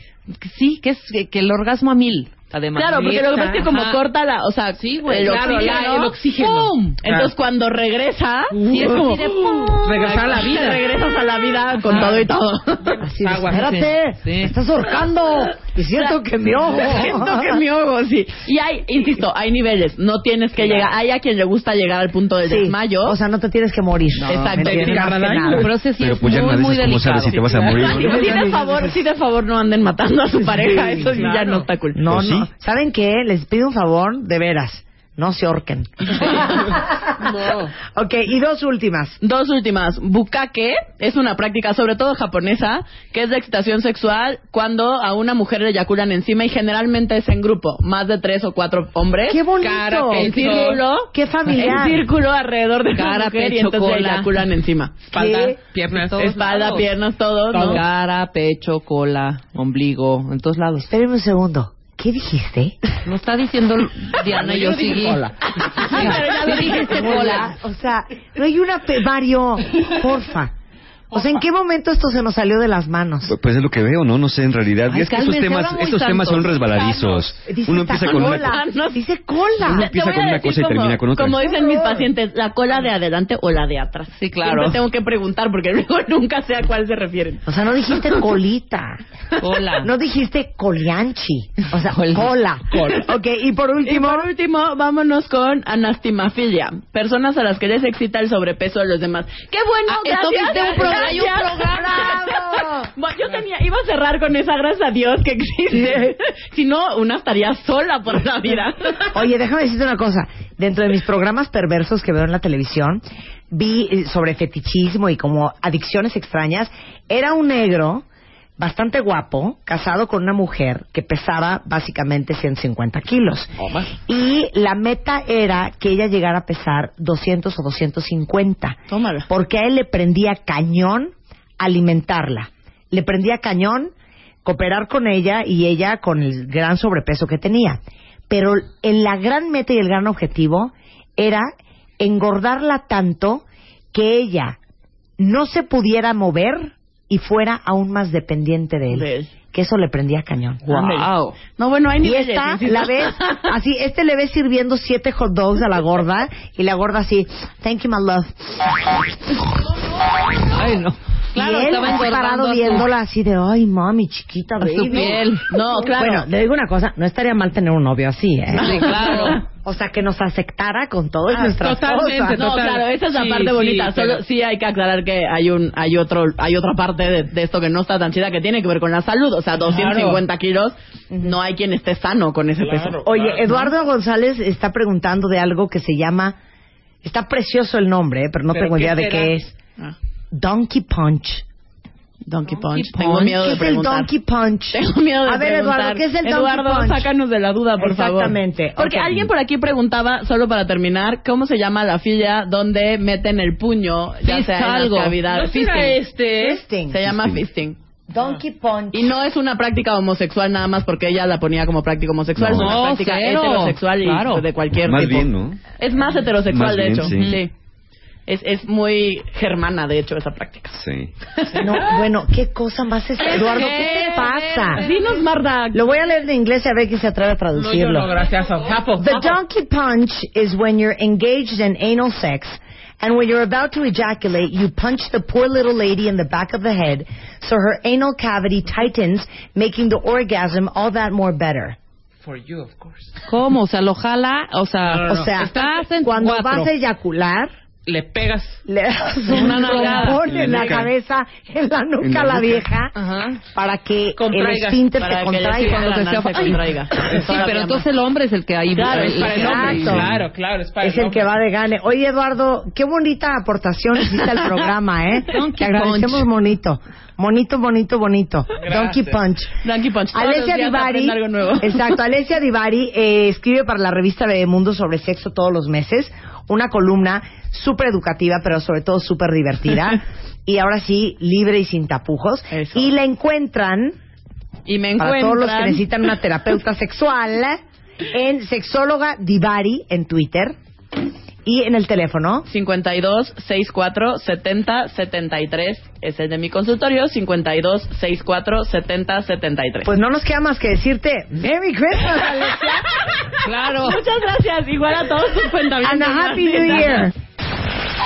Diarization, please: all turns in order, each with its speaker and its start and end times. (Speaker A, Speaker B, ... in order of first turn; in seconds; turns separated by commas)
Speaker A: 0.3-4.0, Speaker B: 2.8-6.2, Speaker A: 4.8-7.0, Speaker C: 4.9-7.3, Speaker B: 7.0-13.0, Speaker C: 8.5-9.2, Speaker A: 8.7-9.9, Speaker C: 9.8-10.8, Speaker A: 11.8-12.3, Speaker C: 11.9-12.2, Speaker C: 12.8-13.8, Speaker D: 13.0-17.6, Speaker A: 13.5-14.6, Speaker B: 16.0-23.2, Speaker D: 22.4-25.7, Speaker B: 24.3-25.3, Speaker C: 24.4-25.7, Speaker A: 25.4-27.6, Speaker E: 26.0-28.3, Speaker B: 27.0-32.0, Speaker C: 27.7-28.6, Speaker D: 28.2-29.0, Speaker C: 30.6-31.7, Speaker D: 31.9-39.2, Speaker E: 32.1-32.5, Speaker C: 37.2-37.7, Speaker B: 39.2-49.5, Speaker D: 49.3-50.6, Speaker C: 49.6-50.8, Speaker B: 50.1-55.1, Speaker D: 51.1-52.1, Speaker A: 53.0-54.3, Speaker C: 55.1-56.8, Speaker D: 55.1-55.6, Speaker A: 55.9-56.9, Speaker B: 56.1-57.8, Speaker C: 57.5-57.8, Speaker A: 57.5-60.9, Speaker D: 60.9-62.8, Speaker A: 63.0-65.3, Speaker C: 64.3-66.3, Speaker B: 65.5-67.5, Speaker A: 65.8-67.5, Speaker D: 65.9-70.5, Speaker D: 71.1-73.3, Speaker E: 73.3-78.6, Speaker A: 74.9-77.2, Speaker D: 77.5-79.9, Speaker B: 77.9-79.0, Speaker B: 79.6-88.2, Speaker E: 79.7-81.4, Speaker D: 81.5-82.1, Speaker A: 84.2-84.8, Speaker D: 87.5-89.0, Speaker A: 89.4-89.9, Speaker D: 89.8-94.3, Speaker A: 91.9-92.3, Speaker B: 92.8-93.0, Speaker B: 93.8-109.2, Speaker A: 99.9-102.0, Speaker D: 101.6-102.9, Speaker D: 105.7-106.1, Speaker D: 109.1-118.1, Speaker D: 118.6-133.9, Speaker B: 128.9-129.3, Speaker D: 134.4-144.6, Speaker D: 145.2-151.0, Speaker B: 148.9-149.3, Speaker A: 150.6-151.4, Speaker B: 151.6-153.5, Speaker D: 152.0-159.2, Speaker A: 160.5-162.9, Speaker D: 161.3-172.5, Speaker A: 164.6-165.5, Speaker B: 165.0-166.3, Speaker A: 168.5-169.4, Speaker B: 168.9-169.3, Speaker C: 171.3-174.2, Speaker B: 172.3-183.1, Speaker C: 179.6-180.2, Speaker C: 182.6-183.7, Speaker D: 183.0-186.4, Speaker D: 187.0-189.5, Speaker C: 188.5-189.4, Speaker D: 190.3-191.4, Speaker B: 192.3-194.1, Speaker A: 192.5-193.4, Speaker D: 193.4-197.1, Speaker B: 194.7-206.0, Speaker D: 197.8-199.3, Speaker A: 204.2-205.2, Speaker C: 205.3-206.6, Speaker D: 206.3-207.1, Speaker B: 206.9-207.8, Speaker E: 207.1-207.4, Speaker D: 208.1-209.2, Speaker B: 208.9-217.5, Speaker E: 212.4-212.8, Speaker A: 212.5-214.4, Speaker E: 214.8-215.6, Speaker E: 216.5-217.4, Speaker A: 217.0-217.4, Speaker B: 218.3-220.8, Speaker E: 220.7-221.1, Speaker D: 221.6-224.8, Speaker A: 223.2-225.2, Speaker B: 224.8-225.8, Speaker D: 225.7-228.2, Speaker C: 227.6-229.4, Speaker D: 229.0-241.8, Speaker C: 242.2-243.1, Speaker A: 243.3-246.7, Speaker C: 244.8-245.8, Speaker D: 245.0-245.5, Speaker D: 246.0-247.5, Speaker C: 247.9-248.7, Speaker D: 248.7-252.9, Speaker A: 249.3-250.4, Speaker C: 249.3-250.9, Speaker B: 250.4-250.8, Speaker E: 252.0-252.5, Speaker A: 252.9-253.4, Speaker D: 253.5-255.9, Speaker C: 254.2-254.9, Speaker B: 255.0-257.9, Speaker A: 255.6-260.0, Speaker C: 258.8-261.3, Speaker B: 258.8-259.7, Speaker D: 258.9-260.1, Speaker E: 259.9-260.3, Speaker D: 260.8-269.5, Speaker A: 265.3-266.3, Speaker C: 268.6-269.2, Speaker B: 269.6-272.0, Speaker D: 270.1-284.0, Speaker B: 282.5-282.9, Speaker B: 284.7-285.9, Speaker D: 285.0-287.6, Speaker D: 288.1-290.6, Speaker D: 291.4-292.5, Speaker B: 292.5-299.9, Speaker D: 299.9-302.9, Speaker A: 303.4-304.0, Speaker B: 303.7-307.1, Speaker D: 305.8-307.1